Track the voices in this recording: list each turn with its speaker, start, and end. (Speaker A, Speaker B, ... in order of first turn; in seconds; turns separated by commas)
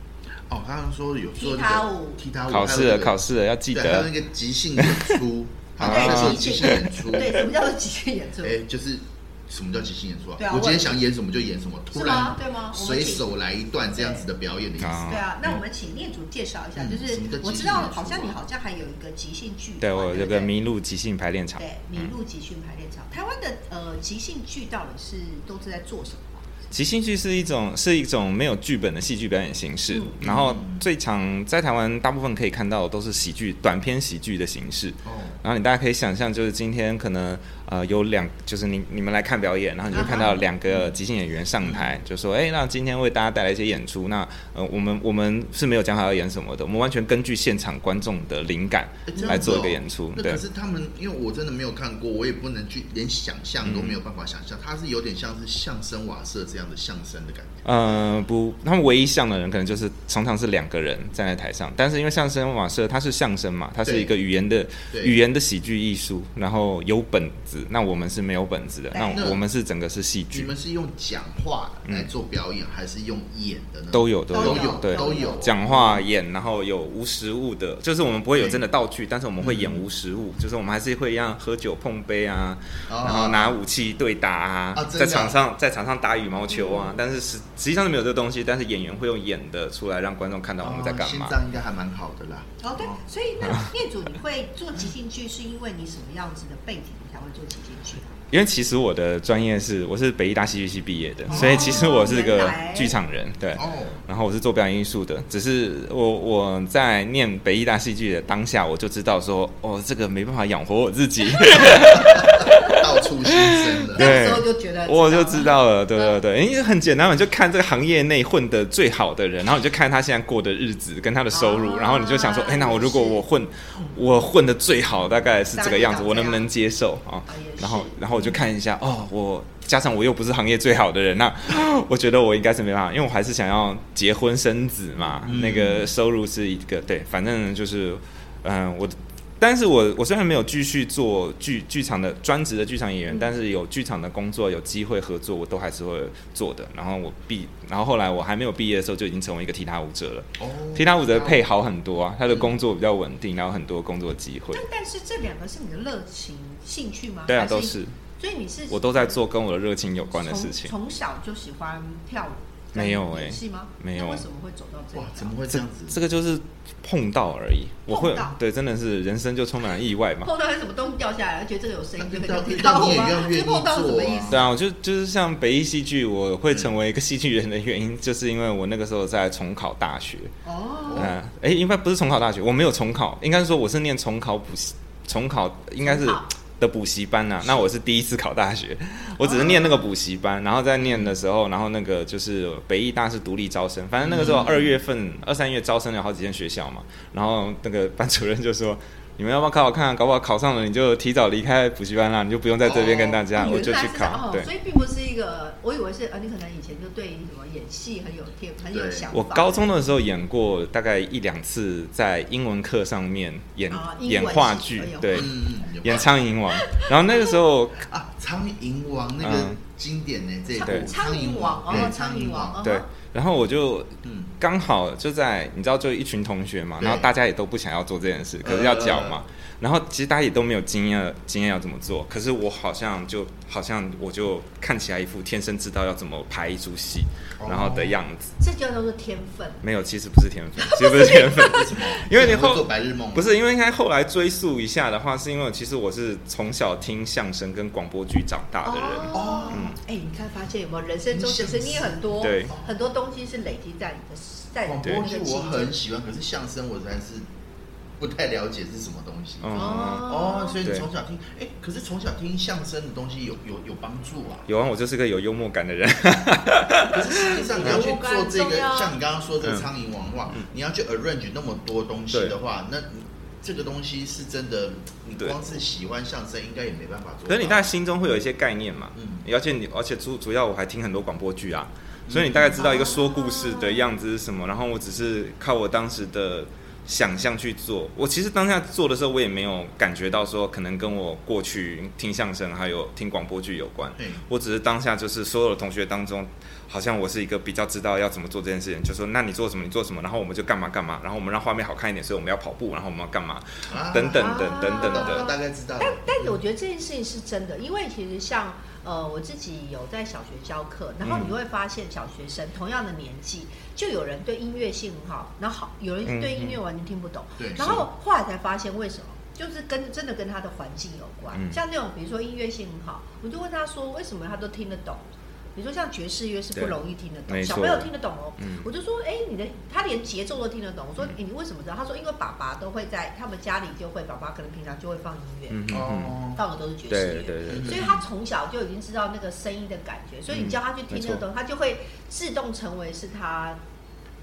Speaker A: 0.5-3.2, Speaker B: 1.4-2.2, Speaker C: 2.5-4.1, Speaker A: 3.7-7.5, Speaker C: 4.8-5.2, Speaker C: 5.8-7.3, Speaker B: 5.8-8.6, Speaker A: 8.4-15.2, Speaker B: 10.4-10.9, Speaker B: 11.9-13.3, Speaker B: 13.9-14.2, Speaker C: 14.8-15.2, Speaker B: 15.1-20.5, Speaker A: 16.8-18.4, Speaker C: 19.8-22.1, Speaker B: 21.6-26.5, Speaker C: 26.7-50.4, Speaker B: 29.9-30.2, Speaker A: 30.2-30.8, Speaker A: 35.0-35.4, Speaker B: 39.9-40.4, Speaker A: 41.6-41.9, Speaker A: 49.1-57.7, Speaker B: 49.1-49.6, Speaker C: 53.6-54.0, Speaker C: 57.6-70.5, Speaker A: 63.8-64.1, Speaker A: 64.9-65.2, Speaker B: 68.9-69.2, Speaker A: 69.1-69.4, Speaker A: 70.3-76.1, Speaker C: 73.9-91.4, Speaker B: 74.3-75.4, Speaker A: 78.4-78.6, Speaker A: 79.4-79.8, Speaker A: 82.9-83.6, Speaker A: 84.7-85.4, Speaker B: 86.5-86.9, Speaker A: 90.6-93.0, Speaker B: 92.6-98.2, Speaker C: 98.3-154.7, Speaker B: 101.3-103.0, Speaker A: 101.3-101.8, Speaker A: 103.5-104.0, Speaker A: 111.6-114.2, Speaker B: 112.5-112.8, Speaker B: 113.9-116.2, Speaker B: 121.3-123.2, Speaker B: 125.5-126.5, Speaker B: 127.3-128.0, Speaker A: 135.3-135.9, Speaker A: 150.4-151.4, Speaker B: 154.5-159.2, Speaker C: 157.3-157.9, Speaker C: 158.7-160.7, Speaker B: 160.1-165.3, Speaker C: 162.7-164.2, Speaker A: 164.9-166.0, Speaker C: 165.6-170.3, Speaker B: 167.9-168.4, Speaker B: 170.2-174.5, Speaker A: 172.0-174.5, Speaker C: 174.3-180.3, Speaker B: 180.4-181.1, Speaker A: 180.9-181.2, Speaker C: 180.9-204.5, Speaker B: 185.8-186.3, Speaker B: 189.2-189.9, Speaker A: 190.8-191.2, Speaker A: 194.0-194.8, Speaker A: 202.6-203.2, Speaker B: 202.8-209.8, Speaker A: 208.7-209.1, Speaker C: 209.1-217.9, Speaker B: 213.7-215.4, Speaker A: 215.1-216.2, Speaker B: 216.5-217.4, Speaker A: 217.8-222.6, Speaker C: 219.2-219.6, Speaker B: 220.5-222.9, Speaker C: 222.6-238.3, Speaker A: 224.0-224.3, Speaker A: 226.8-227.1, Speaker A: 228.4-229.2, Speaker A: 237.4-238.0, Speaker B: 238.4-239.6, Speaker C: 239.6-249.8, Speaker B: 240.6-241.7, Speaker A: 241.4-243.4, Speaker B: 248.6-255.8, Speaker A: 249.1-249.8, Speaker A: 251.1-252.7, Speaker C: 252.2-252.5, Speaker A: 254.7-257.3, Speaker A: 258.0-264.5, Speaker C: 259.4-260.9, Speaker B: 259.6-260.6, Speaker C: 264.5-267.9, Speaker A: 266.9-277.7, Speaker B: 267.3-269.0, Speaker C: 277.3-305.3, Speaker A: 279.0-279.2, Speaker A: 282.1-282.6, Speaker B: 282.6-283.9, Speaker A: 303.7-306.3, Speaker B: 304.1-325.1, Speaker C: 311.0-311.3, Speaker C: 316.1-316.6, Speaker A: 317.4-317.8, Speaker C: 321.3-321.6, Speaker B: 325.6-335.6, Speaker C: 327.3-328.7, Speaker C: 335.5-336.2, Speaker A: 335.7-336.4, Speaker B: 336.3-343.6, Speaker C: 336.9-337.9, Speaker A: 337.5-338.0, Speaker C: 340.3-341.2